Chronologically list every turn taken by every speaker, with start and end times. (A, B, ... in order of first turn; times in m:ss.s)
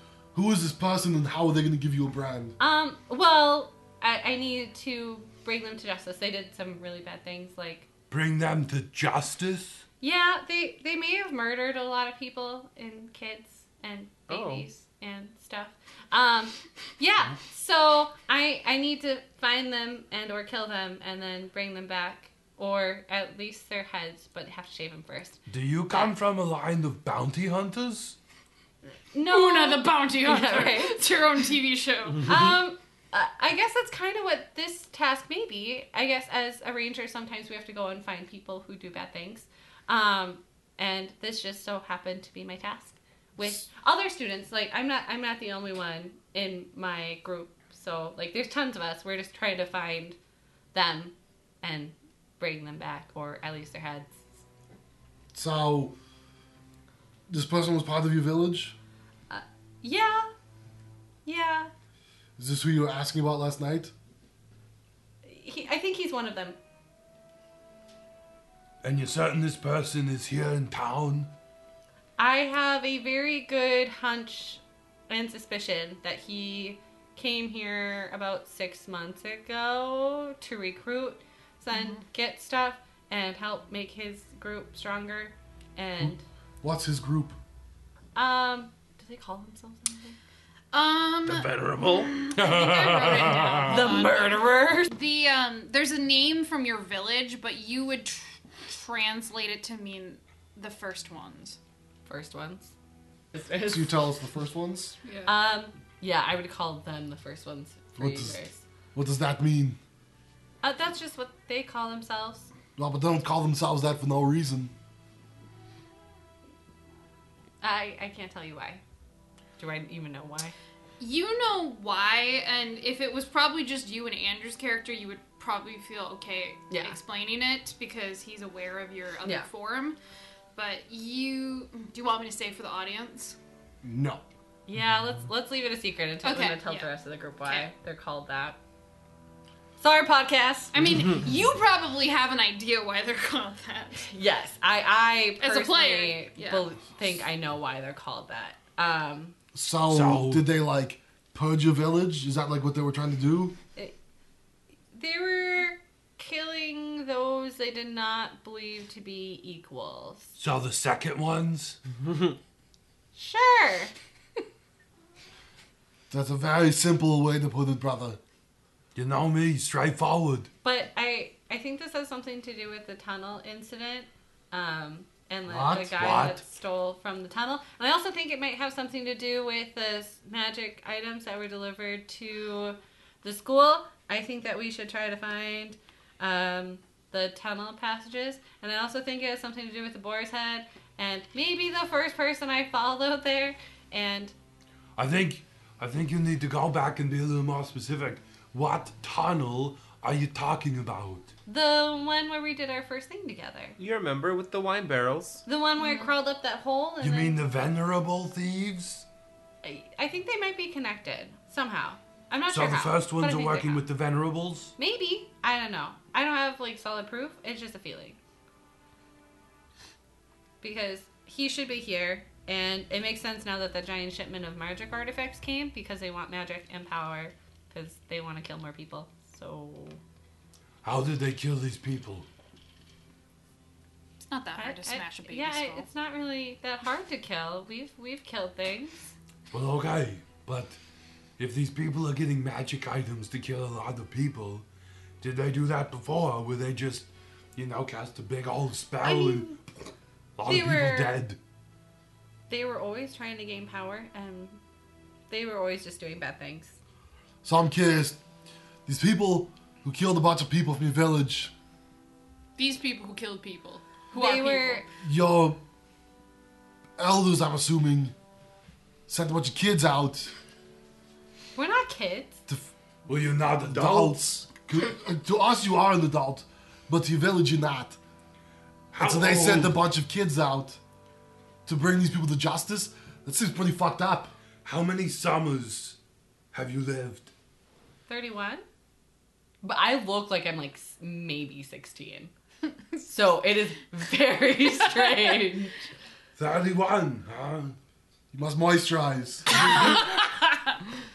0:00.3-0:02.5 A
0:02.6-0:07.9 B
0:08.1-0:09.8 C
0:10.0-0:25.4 B
0:14.3-0:14.6 D
0:25.5-0:28.2 C
0:29.1-0:31.0 B
0:29.2-0:32.4 E
0:32.2-0:50.2 B
0:50.7-0:54.2 B
0:55.3-0:55.9 A
0:57.3-0:58.8 A
0:59.3-1:00.3 B
1:01.2-1:01.7 B
1:02.4-1:03.9 A
1:05.2-1:06.6 B
1:08.8-1:11.3 C
1:12.2-1:26.2 B
1:21.7-1:22.0 E
1:26.6-1:27.4 A
1:28.1-1:30.2 B
1:30.7-1:41.6 E
1:31.2-1:34.0 C
1:33.6-1:34.9 B
1:42.0-1:42.7 B
1:43.3-1:44.0 B
1:43.7-1:45.0 A
1:45.0-1:45.3 E
1:45.2-1:48.6 B
1:48.0-1:48.4 A
1:48.9-1:49.8 A
1:50.6-1:52.5 B
1:52.8-1:54.7 A
1:57.6-1:58.8 B
1:59.6-2:00.5 B
2:01.0-2:10.0 E
2:06.7-2:07.0 B
2:10.5-2:13.4 E
2:13.8-2:14.2 A
2:14.7-2:18.6 B
2:16.2-2:17.7 E
2:19.8-2:21.0 B
2:20.7-2:24.1 E
2:24.1-2:29.4 B
2:25.4-2:26.7 E
2:29.5-2:33.5 A
2:29.9-2:30.5 C
2:34.9-2:40.4 B
2:40.4-2:41.8 C
2:43.1-2:43.9 B
2:46.1-2:48.2 A
2:48.9-2:50.5 C
2:50.6-3:14.3 B
2:55.5-2:56.1 A
2:56.0-2:56.4 C
3:15.0-3:21.3 C
3:21.5-3:23.8 B
3:23.8-3:25.4 D
3:25.4-3:27.4 B
3:25.8-3:26.1 E
3:27.0-3:29.0 C
3:29.6-3:33.8 B
3:32.5-3:34.7 C
3:34.8-3:38.2 B
3:40.6-3:50.0 B
3:50.8-3:52.3 C
3:54.2-3:55.9 E
3:54.6-3:59.1 B
3:59.5-4:00.8 C
4:01.4-4:04.6 C
4:05.2-4:09.6 C
4:09.0-4:09.6 B
4:10.4-4:11.4 C
4:10.4-4:11.2 B
4:12.5-4:14.6 B
4:15.3-4:16.8 B
4:17.4-4:18.2 A
4:18.8-4:21.5 A
4:22.6-4:24.8 E
4:24.1-4:24.8 B
4:25.0-4:25.6 A
4:27.0-4:28.1 A
4:29.1-4:30.3 A
4:31.5-4:32.4 B
4:33.1-4:34.2 C
4:33.6-4:38.0 A
4:38.9-4:39.8 C
4:39.0-4:40.8 A
4:41.6-4:44.3 A
4:44.6-4:46.0 C
4:46.5-4:47.3 C
4:48.1-4:48.6 B
4:49.6-4:52.3 B
4:52.9-4:55.9 B
4:55.0-4:55.2 E
4:56.4-4:57.8 C
4:58.3-4:59.6 A